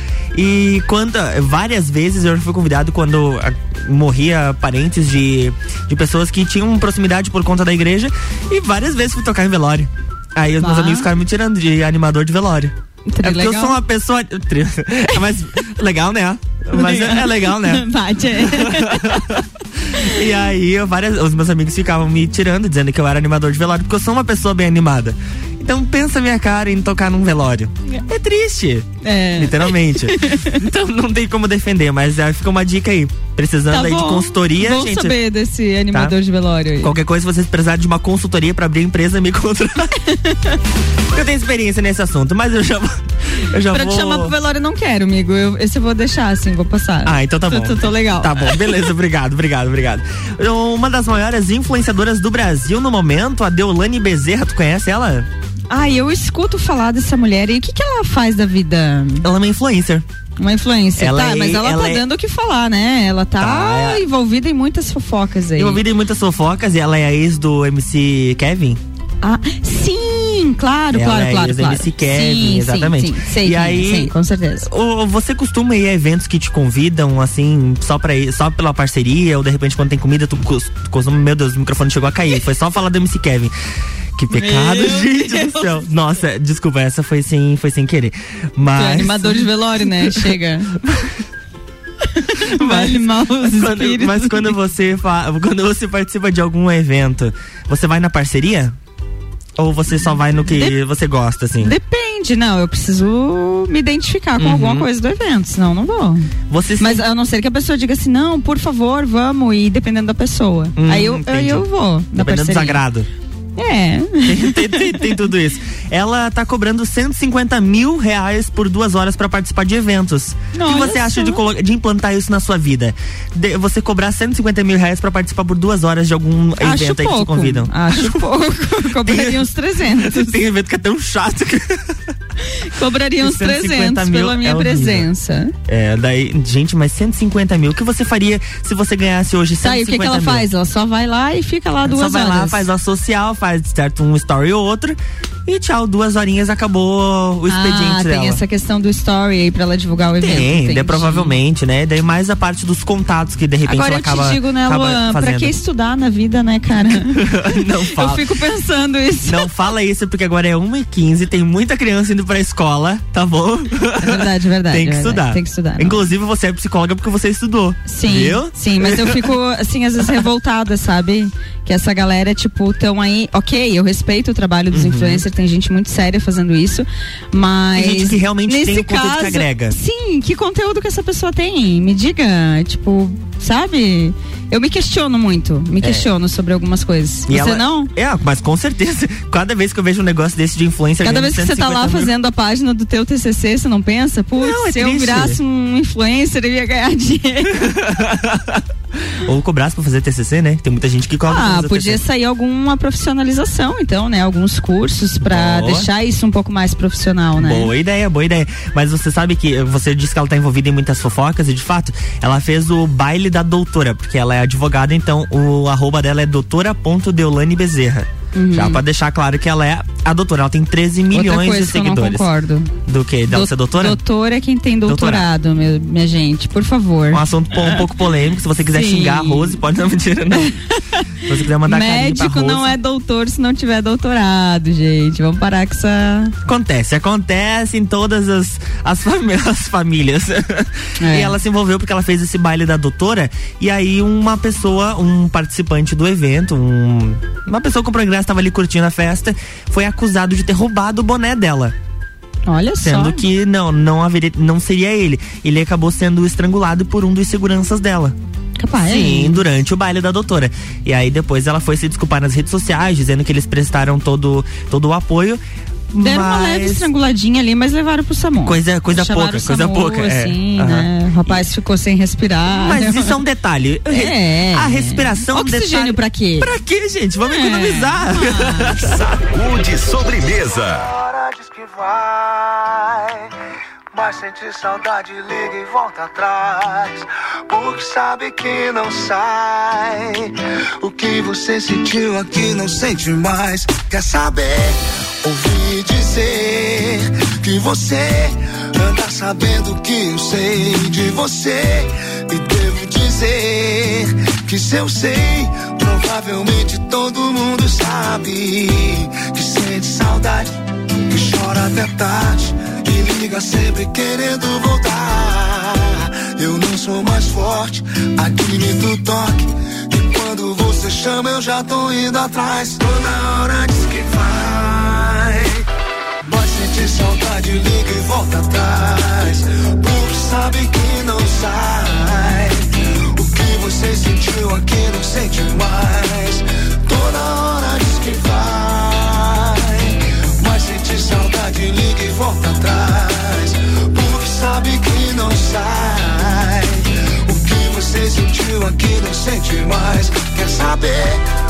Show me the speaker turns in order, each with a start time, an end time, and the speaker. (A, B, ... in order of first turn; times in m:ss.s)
0:00.3-0:17.8 A
0:10.6-0:11.1 B
0:13.1-0:13.8 B
0:16.7-0:19.2 B
0:18.4-0:35.1 A
0:29.0-0:30.6 B
0:33.7-0:36.9 B
0:36.8-0:39.9 A
0:40.2-0:40.5 B
0:41.1-0:44.3 A
0:43.7-0:48.6 B
0:47.0-0:55.3 A
0:55.7-0:59.3 B
0:59.2-1:00.0 A
1:00.4-1:05.8 B
1:01.0-1:02.0 A
1:03.4-1:04.0 A
1:05.6-1:08.8 A
1:09.2-1:14.7 B
1:10.9-1:23.5 A
1:24.2-1:30.3 A
1:24.3-1:25.8 B
1:28.8-1:30.8 B
1:30.8-1:31.1 A
1:32.2-1:34.5 B
1:32.5-1:38.8 A
1:39.6-1:41.8 A
1:40.5-1:40.8 B
1:41.6-1:46.3 B
1:44.4-1:44.9 A
1:46.5-1:47.0 A
1:46.8-1:52.8 B
1:50.8-1:53.1 A
1:53.6-1:55.0 B
1:54.2-2:08.2 A
2:00.5-2:01.4 B
2:06.6-2:10.4 B
2:09.0-2:12.0 A
2:12.7-2:15.5 B
2:13.2-2:15.1 A
2:15.7-2:20.5 A
2:19.6-2:22.6 B
2:21.8-2:28.4 A
2:27.5-2:31.3 B
2:30.2-2:35.5 A
2:33.7-2:39.5 B
2:37.0-2:38.2 A
2:39.2-2:49.3 A
2:44.0-2:46.1 B
2:47.9-3:07.9 B
2:54.7-2:55.2 A
2:57.8-2:59.8 A
3:07.3-3:12.1 A
3:11.0-3:17.7 B
3:14.4-3:15.4 A
3:17.5-3:18.6 A
3:19.2-3:22.0 A
3:21.3-3:27.7 B
3:25.2-3:25.9 A
3:27.4-3:42.2 A
3:38.4-3:38.8 B
3:41.1-3:42.7 B
3:42.9-3:44.0 A
3:43.3-3:47.2 B
3:44.9-3:45.3 A
3:47.1-3:50.5 A
3:48.7-3:49.6 B
3:51.3-3:52.7 A
3:51.7-3:56.3 B
3:56.4-4:11.7 A
4:01.0-4:01.4 B
4:12.5-4:13.2 B
4:12.8-4:18.2 A
4:18.6-4:19.4 B
4:18.8-4:25.4 A
4:25.9-4:26.9 A
4:26.0-4:33.2 B
4:28.4-4:31.4 A
4:32.5-4:39.0 A
4:33.9-4:36.5 B
4:37.2-4:38.8 B
4:38.8-4:40.9 C
4:41.2-4:43.1 D
4:44.0-4:50.2 D
4:50.8-4:54.7 D
4:55.2-4:56.6 D
4:57.5-4:58.3 D
4:58.8-5:01.8 D
5:02.4-5:03.6 D
5:04.5-5:08.5 D
5:09.3-5:10.5 D
5:11.1-5:15.7 D
5:16.4-5:17.6 D
5:18.2-5:19.3 D
5:20.0-5:25.4 D
5:26.3-5:32.6 D
5:33.2-5:39.4 D
5:40.4-5:46.1 D
5:47.3-5:50.9 D